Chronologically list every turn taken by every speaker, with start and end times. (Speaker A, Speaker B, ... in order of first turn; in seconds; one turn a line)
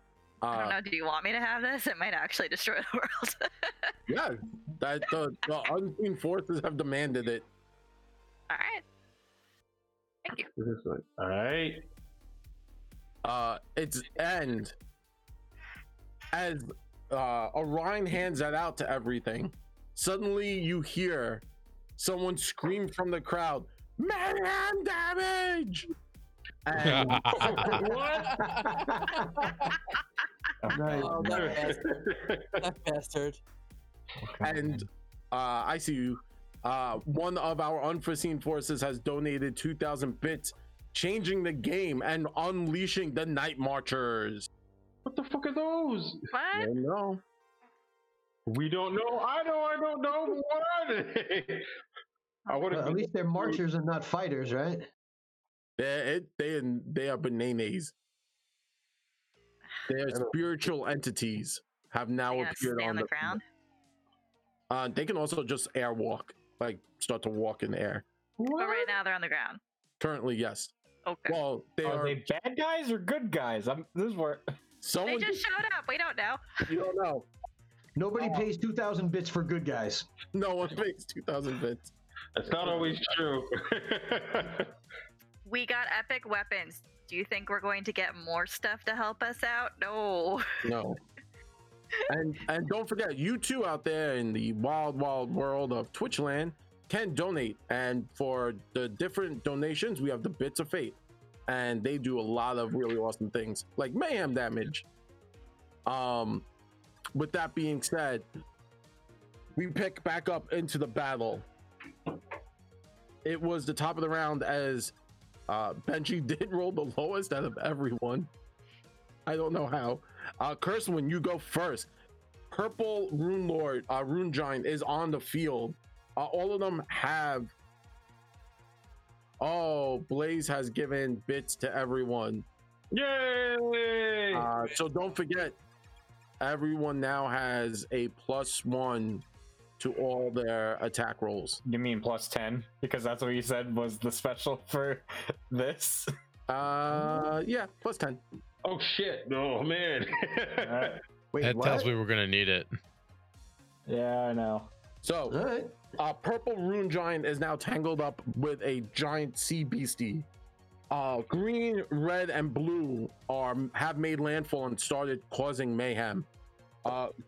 Speaker A: 0.4-0.8
Speaker B: 0.5-3.7
Speaker A: 4.1-7.5
Speaker B: 8.5-8.8
Speaker B: 10.2-10.5
Speaker C: 10.6-11.8
Speaker A: 13.2-14.7
Speaker A: 16.3-21.4
Speaker A: 22.0-25.9
Speaker A: 26.7-27.8
Speaker D: 26.8-27.8
Speaker C: 27.2-28.8
Speaker E: 27.6-27.9
Speaker F: 28.1-28.9
Speaker E: 28.7-29.5
Speaker F: 29.4-29.7
Speaker G: 30.6-31.2
Speaker E: 30.7-31.7
Speaker F: 30.8-32.0
Speaker A: 31.1-31.7
Speaker C: 31.2-32.7
Speaker F: 32.6-33.4
Speaker G: 34.2-34.6
Speaker A: 34.4-44.5
Speaker C: 45.0-46.3
Speaker B: 46.3-46.7
Speaker A: 46.5-47.2
Speaker C: 48.5-51.7
Speaker C: 52.5-53.6
Speaker E: 52.7-54.9
Speaker A: 55.8-57.9
Speaker A: 59.9-63.4
Speaker B: 62.3-63.4
Speaker A: 64.7-68.8
Speaker B: 68.6-69.6
Speaker A: 70.0-70.7
Speaker B: 71.1-71.4
Speaker A: 71.3-72.2
Speaker G: 71.8-74.4
Speaker A: 74.8-75.4
Speaker B: 75.0-76.6
Speaker A: 76.7-77.3
Speaker E: 78.0-80.1
Speaker A: 80.3-81.9
Speaker C: 82.4-84.7
Speaker A: 82.5-83.1
Speaker B: 85.5-90.6
Speaker A: 90.6-91.0
Speaker A: 92.1-104.9
Speaker A: 105.9-106.5
Speaker A: 107.1-108.3
Speaker A: 109.6-111.5
Speaker A: 113.2-114.9
Speaker A: 115.5-118.3
Speaker A: 119.3-121.9
Speaker A: 122.5-127.5
Speaker A: 129.4-132.5
Speaker C: 132.9-134.5
Speaker A: 134.3-135.6
Speaker A: 136.4-139.2
Speaker A: 139.8-141.6
Speaker G: 141.7-146.1
Speaker A: 146.5-148.2
Speaker C: 148.6-151.0
Speaker E: 151.3-151.9
Speaker D: 151.4-152.7
Speaker G: 153.9-154.7
Speaker A: 155.0-155.4
Speaker E: 155.3-155.8
Speaker A: 155.9-160.3
Speaker A: 160.9-166.3
Speaker A: 166.8-167.1